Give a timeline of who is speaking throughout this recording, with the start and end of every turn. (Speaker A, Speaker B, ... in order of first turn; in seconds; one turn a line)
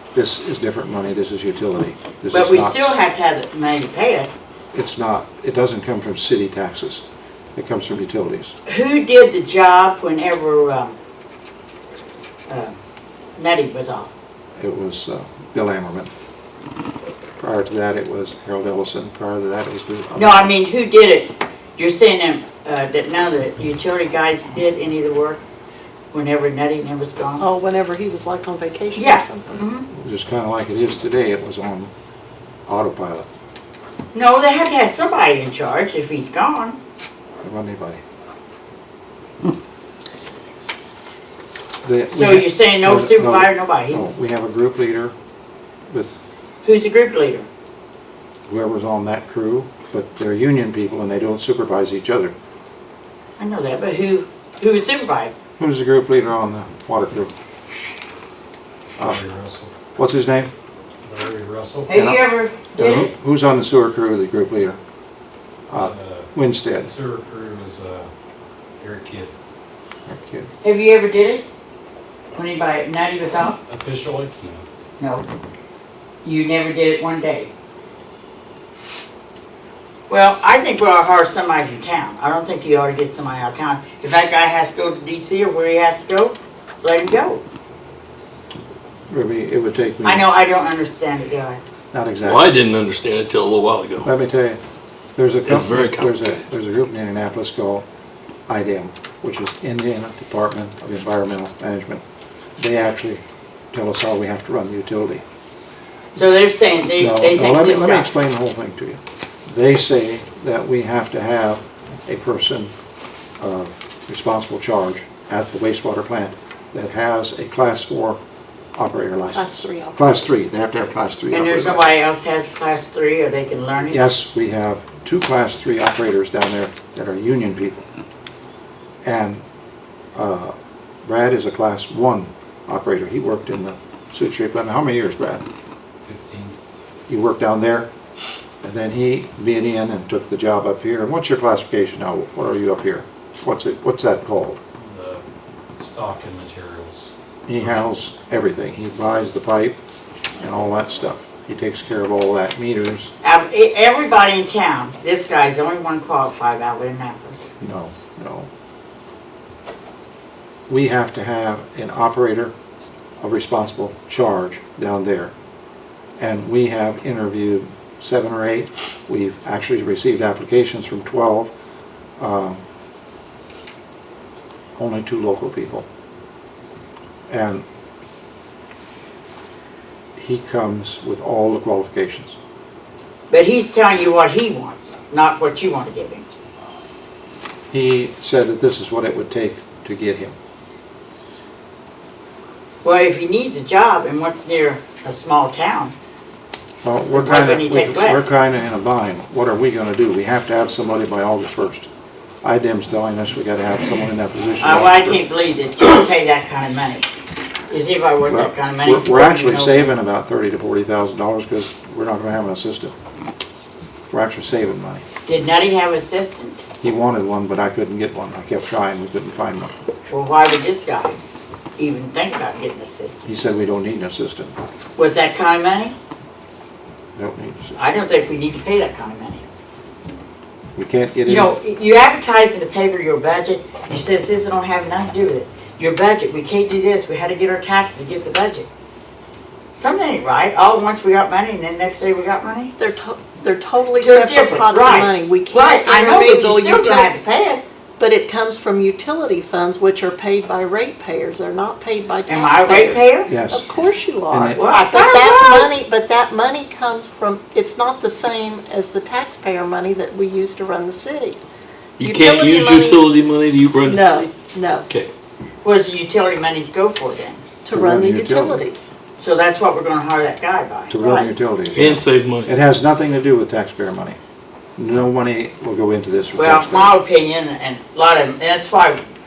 Speaker A: 0.1-3.0
Speaker B: 2.3-4.3
Speaker A: 4.7-8.6
Speaker B: 8.7-11.0
Speaker B: 12.5-12.8
Speaker B: 13.4-14.1
Speaker A: 14.6-16.1
Speaker A: 17.4-20.5
Speaker B: 20.1-25.4
Speaker B: 26.1-27.4
Speaker C: 27.4-29.6
Speaker B: 28.9-29.9
Speaker A: 29.9-31.9
Speaker A: 32.7-33.2
Speaker B: 34.1-36.8
Speaker A: 37.4-38.0
Speaker A: 41.8-45.1
Speaker B: 42.1-44.0
Speaker A: 45.9-46.2
Speaker B: 46.6-47.5
Speaker A: 48.5-52.3
Speaker B: 53.4-55.3
Speaker A: 55.6-57.3
Speaker D: 59.0-59.7
Speaker A: 60.0-60.5
Speaker D: 61.0-61.9
Speaker B: 61.9-63.1
Speaker A: 61.9-62.2
Speaker A: 62.7-64.8
Speaker A: 65.7-66.9
Speaker D: 65.7-68.1
Speaker D: 68.8-69.3
Speaker A: 70.0-70.5
Speaker B: 70.6-71.4
Speaker B: 72.3-73.6
Speaker D: 73.7-74.7
Speaker B: 75.0-75.2
Speaker B: 76.2-77.5
Speaker B: 80.1-87.4
Speaker A: 89.1-90.2
Speaker B: 90.0-91.6
Speaker A: 91.9-92.5
Speaker E: 92.2-94.1
Speaker A: 94.0-94.6
Speaker A: 95.2-97.8
Speaker E: 95.4-96.1
Speaker A: 98.5-102.0
Speaker A: 102.6-103.2
Speaker A: 103.7-105.2
Speaker B: 106.1-108.1
Speaker A: 107.0-112.7
Speaker A: 113.4-118.2
Speaker A: 118.7-121.9
Speaker C: 119.3-120.2
Speaker B: 121.3-124.1
Speaker A: 123.9-127.8
Speaker A: 129.0-129.4
Speaker A: 130.1-135.4
Speaker D: 136.0-136.6
Speaker A: 137.1-137.9
Speaker A: 138.6-144.6
Speaker D: 144.8-147.8
Speaker A: 147.5-149.8
Speaker A: 150.4-153.1
Speaker B: 153.2-157.5
Speaker A: 157.6-158.5
Speaker A: 160.7-162.5
Speaker A: 163.2-165.3
Speaker A: 166.2-171.5
Speaker A: 172.2-172.6
Speaker A: 174.8-175.9
Speaker A: 177.3-177.6
Speaker A: 180.2-182.4
Speaker B: 183.3-186.3
Speaker A: 187.7-190.3
Speaker B: 192.8-195.9
Speaker A: 196.8-201.9
Speaker B: 197.1-198.3
Speaker A: 202.4-205.2
Speaker B: 204.6-207.1
Speaker B: 207.7-210.0
Speaker A: 208.2-212.9
Speaker A: 214.1-215.0
Speaker B: 215.2-216.6
Speaker A: 216.8-219.7
Speaker B: 220.1-221.2
Speaker B: 221.8-223.3
Speaker A: 223.2-224.5
Speaker B: 225.0-225.9
Speaker A: 227.2-227.8
Speaker B: 227.8-229.4
Speaker A: 230.8-231.5
Speaker B: 231.2-238.7
Speaker B: 239.7-242.7
Speaker C: 242.8-247.1
Speaker B: 244.0-247.6
Speaker C: 248.0-261.4
Speaker B: 252.3-253.3
Speaker A: 253.2-254.6
Speaker B: 254.5-255.8
Speaker C: 262.0-263.1
Speaker E: 262.0-264.3
Speaker C: 263.8-264.9
Speaker B: 265.6-267.4
Speaker C: 267.6-268.9
Speaker A: 267.7-268.6
Speaker B: 269.1-271.0
Speaker A: 270.9-274.2
Speaker C: 271.0-271.3
Speaker E: 271.7-272.5
Speaker A: 274.8-276.9
Speaker B: 276.4-279.0